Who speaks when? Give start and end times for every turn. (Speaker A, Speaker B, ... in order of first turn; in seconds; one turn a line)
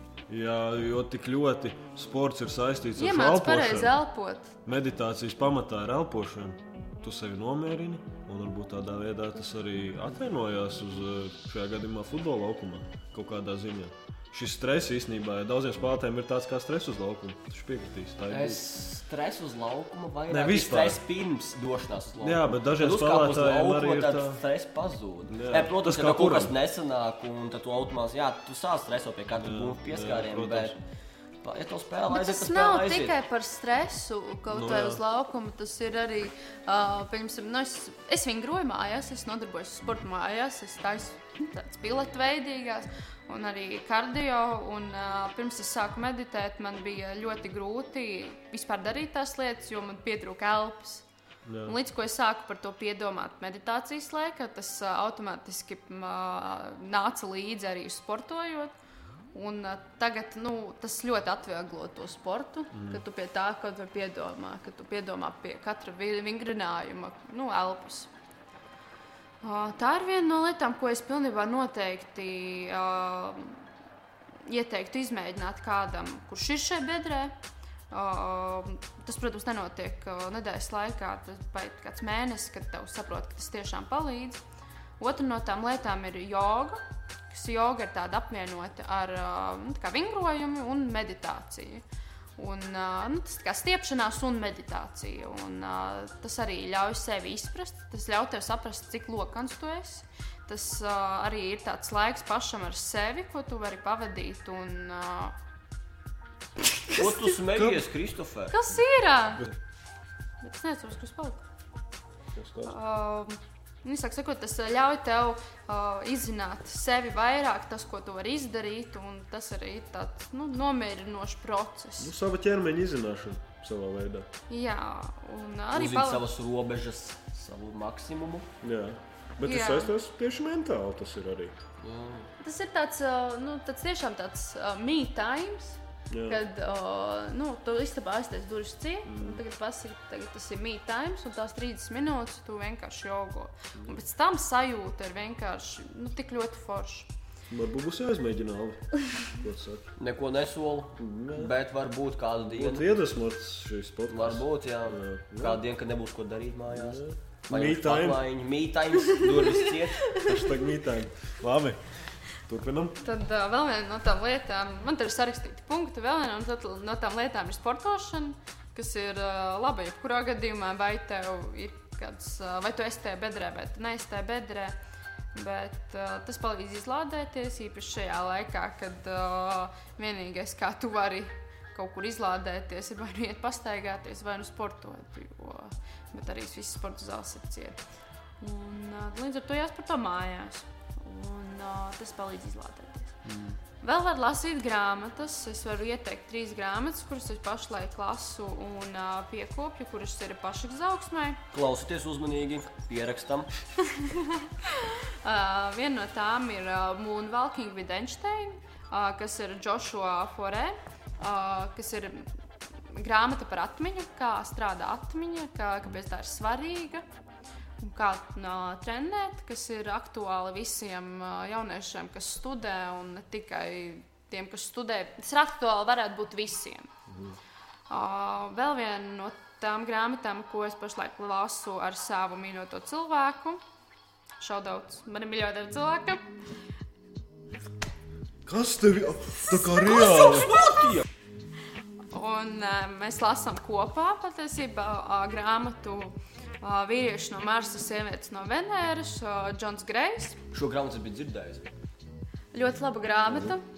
Speaker A: 0.3-4.0
Speaker B: 3.0-4.5
Speaker A: 4.6-18.6
Speaker C: 18.3-30.8
Speaker A: 20.3-21.0
Speaker A: 22.2-24.4
Speaker A: 25.3-26.5
Speaker A: 29.4-30.8
Speaker C: 31.4-33.1
Speaker B: 32.1-51.0
Speaker A: 34.5-35.0
Speaker A: 51.5-51.8
Speaker B: 51.6-58.7
Speaker B: 59.3-68.1
Speaker A: 62.7-63.0
Speaker B: 69.4-73.6
Speaker B: 74.5-77.3
Speaker B: 77.9-84.4
Speaker B: 85.0-91.8
Speaker B: 92.4-105.4
Speaker B: 106.6-107.3
Speaker C: 106.9-108.5
Speaker B: 108.5-109.5
Speaker B: 110.4-111.4
Speaker A: 112.3-112.8
Speaker B: 112.7-122.1
Speaker A: 122.0-124.3
Speaker B: 124.5-126.3
Speaker C: 125.7-128.5
Speaker A: 128.6-131.6
Speaker B: 129.4-129.9
Speaker C: 131.8-132.3
Speaker B: 132.4-147.1
Speaker A: 136.1-136.4
Speaker A: 139.1-139.4
Speaker A: 147.5-149.9
Speaker C: 150.0-152.9
Speaker A: 151.0-151.5
Speaker A: 152.5-155.6
Speaker C: 154.1-160.0
Speaker A: 156.7-158.2
Speaker B: 159.1-160.7
Speaker A: 160.2-163.0
Speaker B: 163.0-174.8
Speaker B: 175.3-187.8
Speaker B: 188.4-193.1
Speaker A: 193.3-193.6
Speaker B: 193.8-201.4
Speaker C: 201.5-203.5
Speaker B: 203.8-212.3
Speaker B: 212.9-217.0
Speaker B: 217.8-226.9
Speaker A: 227.1-227.4
Speaker B: 227.9-233.6
Speaker B: 234.4-236.2
Speaker A: 238.5-240.6
Speaker B: 239.7-240.5
Speaker C: 239.8-241.0
Speaker B: 242.1-250.4
Speaker C: 250.5-251.7
Speaker B: 252.5-253.6
Speaker A: 253.3-253.5